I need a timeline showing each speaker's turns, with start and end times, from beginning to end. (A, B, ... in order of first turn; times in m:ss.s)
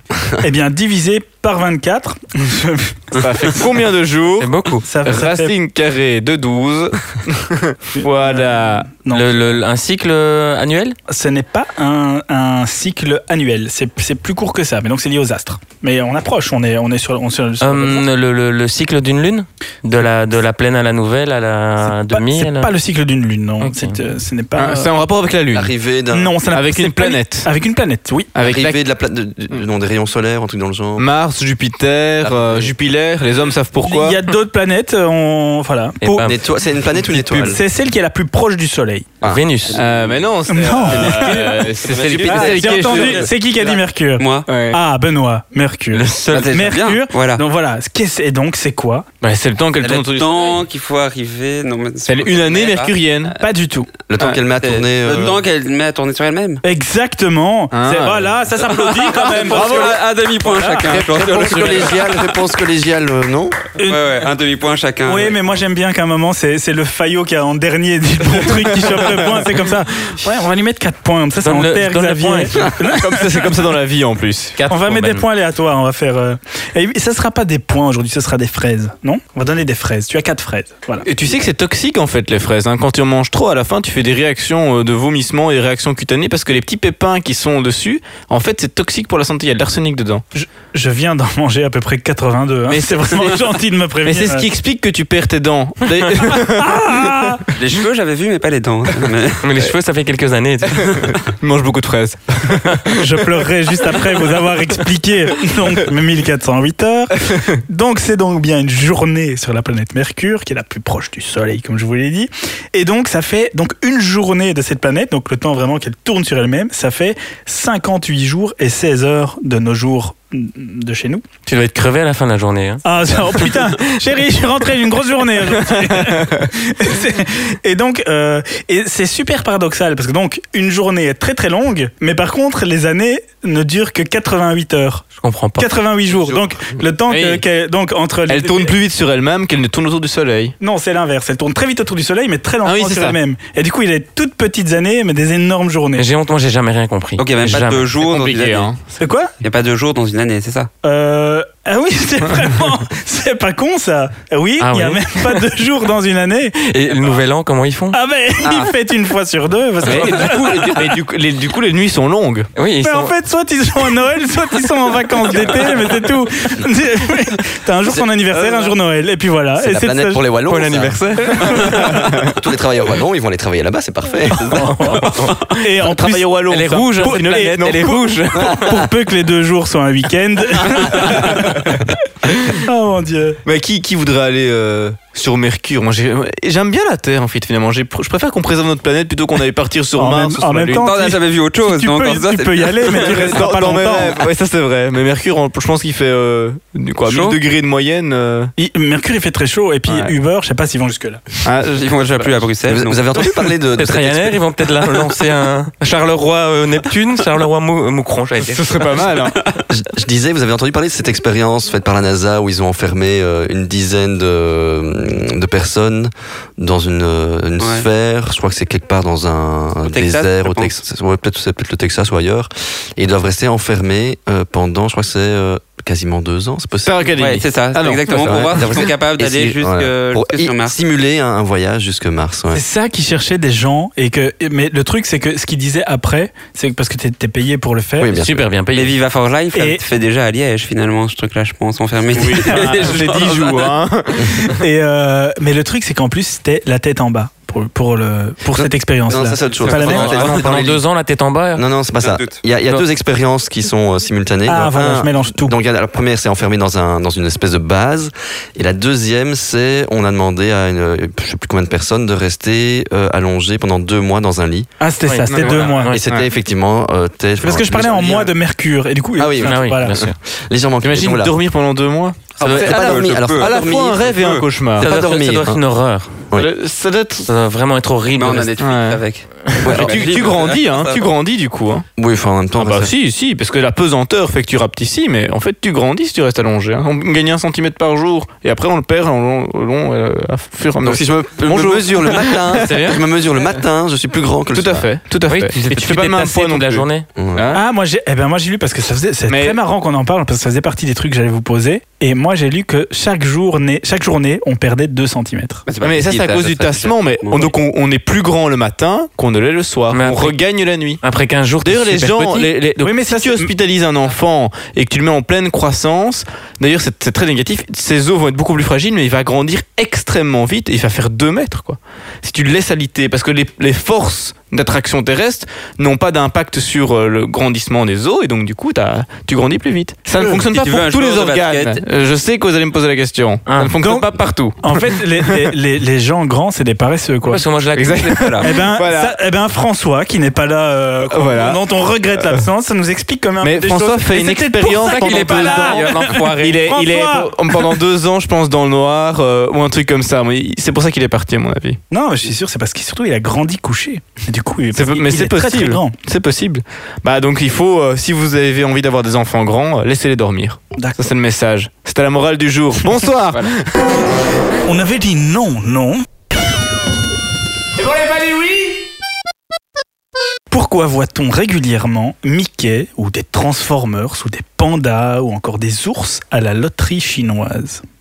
0:00.4-0:03.2 A
0:03.2-0:04.5 B
0:04.4-0:04.9 C
0:04.9-0:05.5 A
0:05.0-0:09.0 B
0:08.0-0:09.5 A
0:09.1-0:11.0 C
0:11.1-0:18.1 A
0:17.6-0:22.7 C
0:21.8-0:24.9 A
0:23.6-0:24.0 C
0:24.6-0:25.7 B
0:25.5-0:26.4 D
0:26.1-0:28.3 A
0:26.5-0:27.5 B
0:28.4-0:28.8 B
0:28.4-0:31.1 D
0:31.0-0:34.2 B
0:32.2-0:32.7 D
0:33.8-0:36.3 A
0:36.0-0:36.4 C
0:36.2-0:37.6 D
0:37.2-0:39.1 A
0:39.2-0:39.8 C
0:39.7-0:40.1 E
0:39.7-0:43.3 B
0:40.5-0:41.7 A
0:41.0-0:43.3 E
0:42.2-0:49.1 A
0:44.2-0:44.5 E
0:44.5-0:44.8 B
0:45.9-0:46.7 C
0:46.3-0:47.4 E
0:49.2-0:50.6 B
0:49.8-0:53.0 E
0:52.1-0:53.4 B
0:53.4-0:53.9 A
0:54.1-0:55.4 D
0:54.6-0:56.6 E
0:56.6-1:00.9 A
0:57.7-0:58.4 B
0:58.7-1:02.3 E
0:59.0-1:00.0 B
1:00.9-1:01.6 C
1:01.1-1:03.6 D
1:01.2-1:01.8 B
1:03.8-1:04.2 A
1:03.9-1:05.4 E
1:05.1-1:13.5 A
1:08.4-1:09.4 B
1:11.4-1:12.8 C
1:12.7-1:14.7 B
1:14.6-1:15.2 C
1:14.7-1:21.1 A
1:21.0-1:30.2 B
1:30.3-1:34.5 A
1:32.7-1:33.4 B
1:34.0-1:37.4 B
1:36.5-1:37.4 A
1:37.6-1:39.4 E
1:39.4-1:41.2 C
1:40.7-1:43.2 B
1:43.0-2:01.2 A
1:47.3-1:47.6 B
2:01.5-2:03.6 C
2:02.8-2:18.8 A
2:05.7-2:06.5 B
2:15.2-2:15.7 C
2:17.1-2:17.4 B
2:18.3-2:20.5 B
2:20.6-2:26.1 A
2:22.6-2:23.2 B
2:26.0-2:27.9 C
2:27.2-2:28.7 E
2:27.6-2:28.8 B
2:29.0-2:29.3 A
2:29.4-2:30.7 E
2:30.8-2:36.6 A
2:34.6-2:35.4 C
2:36.6-2:38.0 C
2:37.9-2:41.0 A
2:39.8-2:42.5 B
2:42.6-2:43.1 C
2:42.8-2:50.2 A
2:49.6-2:55.0 D
2:50.5-2:51.8 C
2:51.3-2:52.0 A
2:51.6-2:52.4 B
2:54.5-3:01.9 A
2:54.6-2:55.6 C
2:55.9-2:58.7 B
2:56.5-2:58.7 C
3:00.7-3:02.6 B
3:02.5-3:03.4 A
3:03.4-3:10.9 B
3:10.0-3:14.2 A
3:10.8-3:13.4 E
3:12.9-3:18.5 B
3:17.0-3:17.4 C
3:18.6-3:21.2 A
3:19.9-3:20.1 B
3:21.4-3:22.4 B
3:21.7-3:23.1 E
3:22.7-3:24.4 D
3:23.7-3:29.1 C
3:28.4-3:29.5 B
3:29.7-3:47.1 D
3:37.6-3:37.9 E
3:39.8-3:40.8 E
3:46.8-3:48.9 B
3:47.2-3:50.8 E
3:48.2-3:52.6 D
3:52.5-3:58.1 A
3:58.0-3:58.4 D
3:58.2-3:58.9 C
3:58.7-4:03.7 E
3:59.6-3:59.8 A
4:02.1-4:04.6 B
4:02.2-4:02.8 A
4:04.6-4:10.4 A
4:08.6-4:10.8 D
4:09.5-4:10.3 E
4:09.7-4:11.6 C
4:11.6-4:24.7 D
4:12.0-4:12.4 E
4:14.5-4:15.6 A
4:24.8-4:26.0 A
4:25.0-4:26.0 C
4:25.3-4:26.3 B
4:25.7-4:28.3 D
4:27.4-4:30.0 A
4:29.2-4:31.3 D
4:29.4-4:30.2 C
4:30.8-4:34.9 B
4:32.4-4:34.5 E
4:32.4-4:34.2 D
4:34.8-4:35.6 D
4:34.8-4:36.3 C
4:36.4-4:37.3 B
4:37.3-4:38.5 C
4:38.1-4:41.0 E
4:38.6-4:39.0 B
4:39.6-4:41.8 B
4:39.6-4:40.1 D
4:42.0-4:42.9 D
4:42.6-4:52.8 B
4:50.8-4:54.9 D
4:52.6-4:53.0 C
4:54.5-4:57.6 B
4:55.3-4:57.1 C
4:57.2-4:57.5 D
4:57.5-5:05.6 A
4:59.3-4:59.6 B
5:05.7-5:07.6 E
5:05.8-5:11.0 B
5:09.9-5:10.4 C
5:11.0-5:12.5 C
5:11.6-5:35.5 B
5:12.8-5:13.5 A
5:30.5-5:31.8 E
5:33.5-5:33.7 C
5:33.8-5:37.4 A
5:37.2-5:38.5 C
5:37.7-5:39.2 B
5:38.1-5:38.4 E
5:38.4-5:47.8 A
5:41.1-5:41.6 B
5:43.4-5:51.8 B
5:44.8-5:46.7 C
5:45.9-5:46.3 E
5:51.9-5:56.0 A
5:54.7-6:03.7 B
6:00.8-6:01.0 A
6:04.7-6:06.1 A
6:10.5-6:17.8 A